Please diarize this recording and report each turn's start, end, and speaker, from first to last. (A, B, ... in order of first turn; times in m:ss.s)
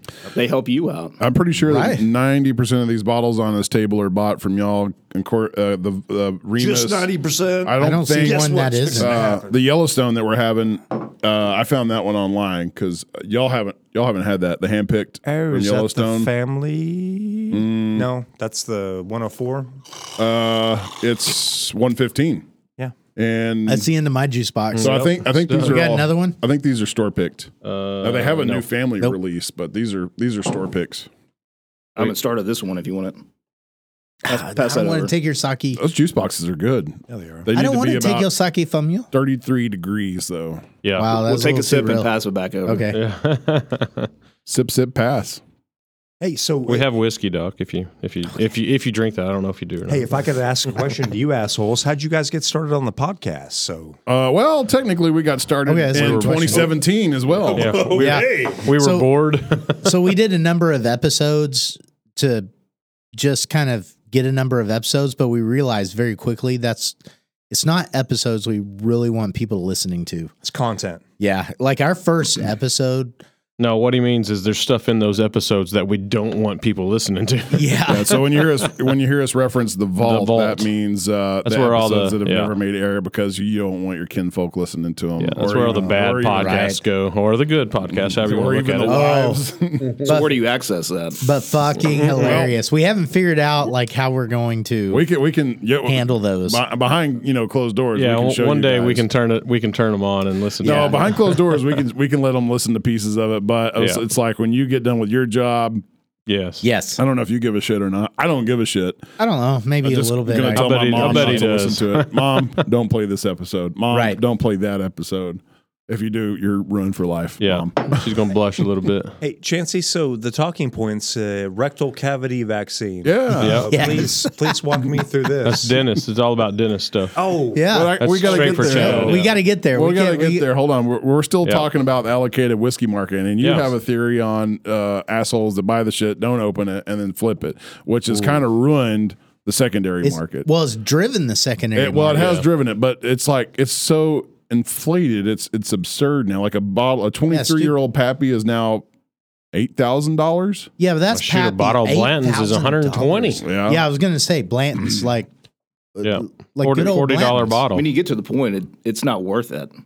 0:00.3-0:01.2 A
0:01.2-0:07.1 B
0:01.7-0:02.0 C
0:06.8-0:07.6 D
0:07.0-0:07.6 A
0:07.6-0:16.3 B
0:07.8-0:09.2 C
0:08.2-0:09.5 D
0:15.2-0:19.8 D
0:17.5-0:18.1 B
0:20.2-0:22.4 B
0:23.2-0:23.9 B
0:23.7-0:26.4 C
0:24.7-0:25.7 E
0:24.8-0:31.1 B
0:27.6-0:28.6 E
0:32.0-0:33.2 A
0:34.2-0:35.8 C
0:34.3-0:35.1 A
0:35.8-0:38.3 B
0:37.1-0:37.5 D
0:37.5-0:39.1 C
0:39.1-0:40.7 B
0:40.8-0:41.1 E
0:41.0-0:42.1 C
0:41.1-0:42.9 A
0:42.6-0:43.0 C
0:42.9-0:44.1 E
0:44.4-0:45.4 B
0:46.2-0:46.9 D
0:46.7-0:50.1 E
0:49.9-0:54.0 D
0:54.1-0:57.8 B
0:55.6-0:56.7 C
0:57.4-0:58.6 D
0:57.5-1:00.0 E
0:57.9-0:59.1 C
0:59.7-1:02.5 C
1:03.1-1:07.0 C
1:07.5-1:10.3 C
1:10.4-1:11.0 D
1:11.2-1:13.1 C
1:13.6-1:18.0 E
1:17.5-1:18.2 C
1:17.9-1:26.6 B
1:20.0-1:20.6 E
1:21.4-1:22.5 E
1:25.2-1:29.1 E
1:26.3-1:26.8 C
1:27.9-1:30.0 B
1:28.8-1:29.4 C
1:30.0-1:31.2 A
1:31.2-1:35.0 C
1:31.9-1:32.4 E
1:32.2-1:32.5 B
1:34.9-1:39.0 B
1:35.8-1:36.6 C
1:37.9-1:41.3 E
1:40.6-1:41.1 C
1:40.6-1:45.8 B
1:43.8-1:44.0 E
1:46.3-1:46.6 E
1:46.6-1:47.0 C
1:47.0-1:49.1 B
1:49.2-1:51.7 C
1:49.8-1:58.2 B
1:50.5-1:52.6 E
1:53.9-1:54.2 C
1:57.4-1:59.2 E
1:59.2-2:05.8 D
2:03.0-2:03.7 B
2:03.4-2:04.0 E
2:03.7-2:04.5 C
2:05.4-2:07.2 E
2:07.2-2:07.7 D
2:07.5-2:10.4 C
2:07.7-2:20.5 B
2:08.0-2:09.3 E
2:08.2-2:09.1 D
2:13.4-2:13.7 E
2:20.0-2:22.4 C
2:21.7-2:28.8 B
2:22.2-2:22.4 E
2:27.3-2:27.7 C
2:29.5-2:30.7 B
2:30.8-2:35.3 C
2:31.1-2:33.4 E
2:33.4-2:33.8 B
2:36.0-2:37.6 C
2:36.0-2:37.9 E
2:37.7-2:39.7 A